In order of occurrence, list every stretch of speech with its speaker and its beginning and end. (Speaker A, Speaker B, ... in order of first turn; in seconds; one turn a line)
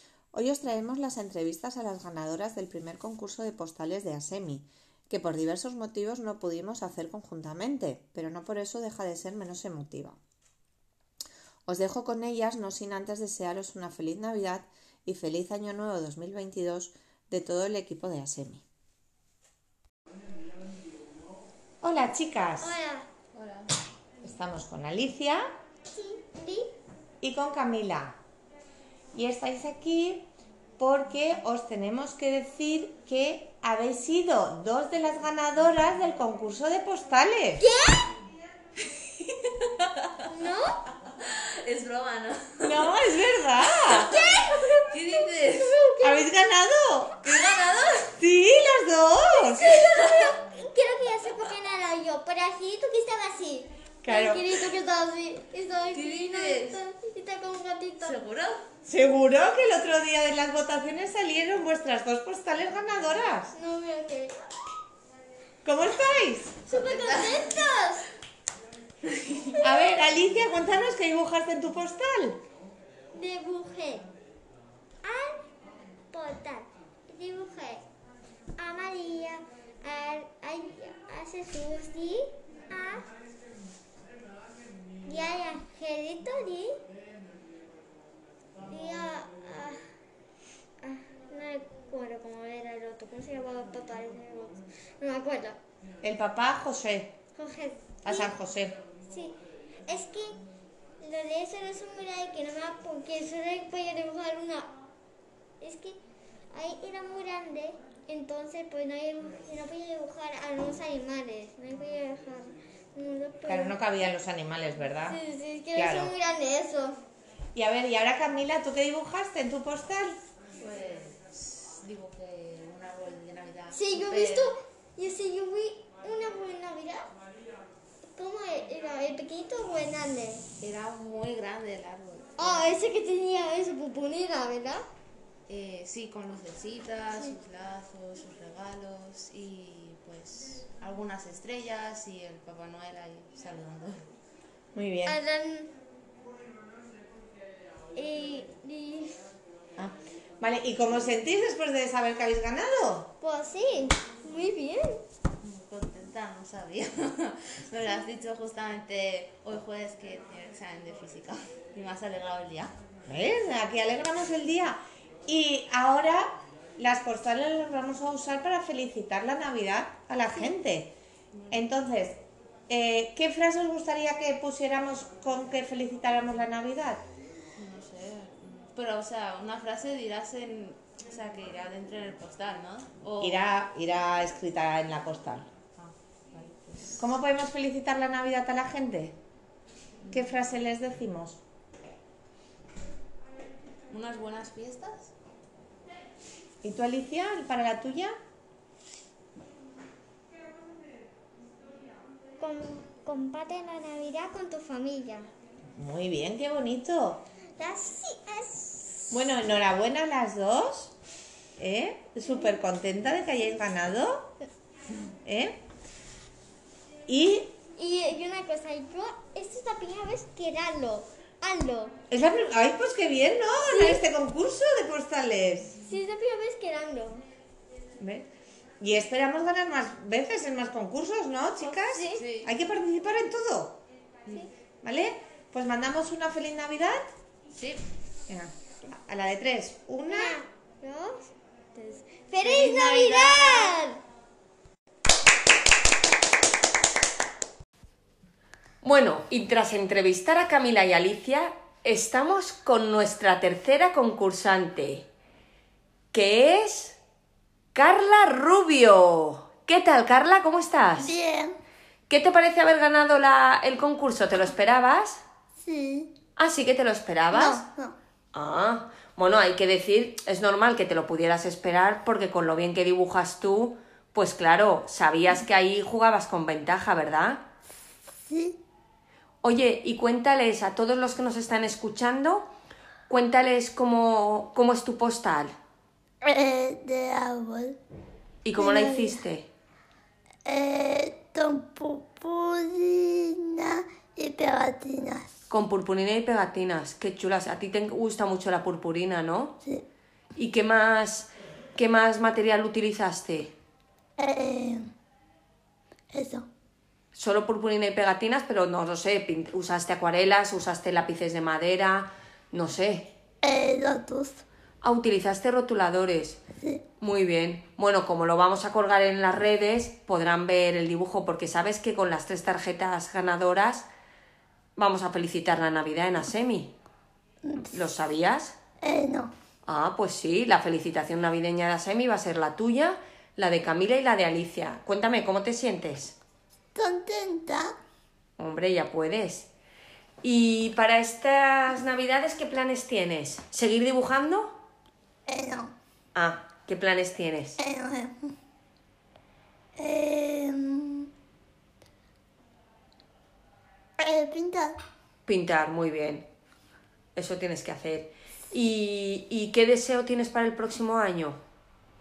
Speaker A: 0.3-10.2
Speaker A: 11.7-18.6
Speaker A: 21.8-22.8
Speaker B: 22.6-23.1
Speaker C: 23.3-23.8
Speaker A: 24.2-25.4
Speaker B: 25.9-26.7
Speaker A: 27.2-28.2
Speaker A: 29.1-30.3
Speaker A: 30.8-37.6
Speaker B: 37.6-38.1
Speaker C: 39.2-40.1
Speaker B: 40.3-40.8
Speaker C: 41.2-42.9
Speaker A: 42.6-44.1
Speaker B: 43.9-46.2
Speaker C: 44.9-45.8
Speaker A: 46.0-47.2
Speaker C: 47.2-48.1
Speaker A: 48.2-49.9
Speaker C: 49.7-50.4
Speaker B: 50.0-58.2
Speaker A: 54.0-54.5
Speaker C: 55.9-56.8
Speaker C: 58.0-58.7
Speaker A: 58.9-63.5
Speaker B: 63.5-64.3
Speaker A: 65.6-66.5
Speaker C: 66.7-67.5
Speaker B: 66.7-68.1
Speaker C: 69.1-69.6
Speaker A: 69.6-72.4
Speaker B: 73.1-74.1
Speaker B: 75.0-75.4
Speaker B: 76.1-77.8
Speaker B: 78.6-83.1
Speaker B: 85.0-86.8
Speaker B: 88.7-89.8
Speaker B: 90.8-95.6
Speaker A: 96.0-97.1
Speaker B: 97.3-98.3
Speaker A: 98.0-98.8
Speaker B: 99.1-99.3
Speaker B: 99.9-100.4
Speaker B: 101.0-104.7
Speaker B: 105.6-106.0
Speaker B: 106.5-113.8
Speaker A: 113.5-115.2
Speaker B: 115.1-117.0
Speaker A: 115.7-116.1
Speaker A: 117.5-120.2
Speaker C: 120.6-124.5
Speaker B: 123.7-127.1
Speaker B: 128.1-130.5
Speaker C: 130.6-132.7
Speaker B: 132.4-134.8
Speaker C: 135.5-144.1
Speaker A: 144.7-145.2
Speaker B: 145.1-145.7
Speaker B: 147.9-149.2
Speaker A: 149.8-153.1
Speaker B: 153.2-155.0
Speaker C: 155.4-162.8
Speaker A: 163.1-170.9
Speaker A: 171.5-177.0
Speaker C: 177.6-183.4
Speaker A: 183.2-185.5
Speaker C: 185.8-187.0
Speaker A: 187.0-189.2
Speaker C: 190.1-190.3
Speaker A: 190.1-191.4
Speaker C: 193.9-195.1
Speaker A: 196.6-198.1
Speaker B: 202.4-205.3
Speaker A: 205.8-207.2
Speaker B: 207.6-209.1
Speaker A: 209.1-210.9
Speaker A: 211.6-214.3
Speaker A: 215.2-215.6
Speaker A: 217.1-217.5
Speaker B: 217.8-222.0
Speaker A: 222.1-225.8
Speaker B: 223.7-224.0
Speaker B: 225.8-227.2
Speaker A: 228.0-228.3
Speaker A: 228.8-233.8
Speaker B: 231.9-232.2
Speaker C: 232.2-232.5
Speaker A: 234.8-237.1
Speaker C: 237.5-237.8
Speaker A: 238.3-240.4
Speaker B: 240.1-244.0
Speaker A: 242.4-243.7
Speaker D: 248.8-255.1
Speaker D: 256.1-257.0
Speaker D: 257.8-261.1
Speaker E: 261.0-261.6
Speaker D: 262.1-265.2
Speaker E: 265.6-266.1
Speaker D: 266.4-267.7
Speaker E: 267.3-267.9
Speaker D: 268.3-277.4
Speaker E: 278.2-278.6
Speaker D: 279.4-282.5
Speaker D: 283.1-285.6
Speaker E: 286.2-287.8
Speaker D: 288.4-289.5
Speaker E: 288.6-289.2
Speaker E: 290.5-295.3
Speaker D: 295.5-299.6
Speaker D: 300.4-303.5
Speaker E: 304.2-304.9
Speaker E: 306.1-306.5
Speaker D: 307.1-313.1
Speaker E: 313.4-314.4
Speaker D: 314.8-316.4
Speaker D: 317.0-323.9
Speaker D: 324.8-326.7
Speaker D: 327.7-328.6
Speaker E: 328.8-329.3
Speaker D: 329.7-336.2
Speaker E: 336.8-337.7
Speaker D: 338.4-339.5
Speaker D: 340.2-344.6
Speaker E: 345.3-345.7
Speaker D: 346.1-347.6
Speaker E: 347.6-348.3
Speaker E: 349.8-351.1
Speaker E: 354.0-354.8
Speaker D: 355.3-356.3
Speaker D: 357.2-361.4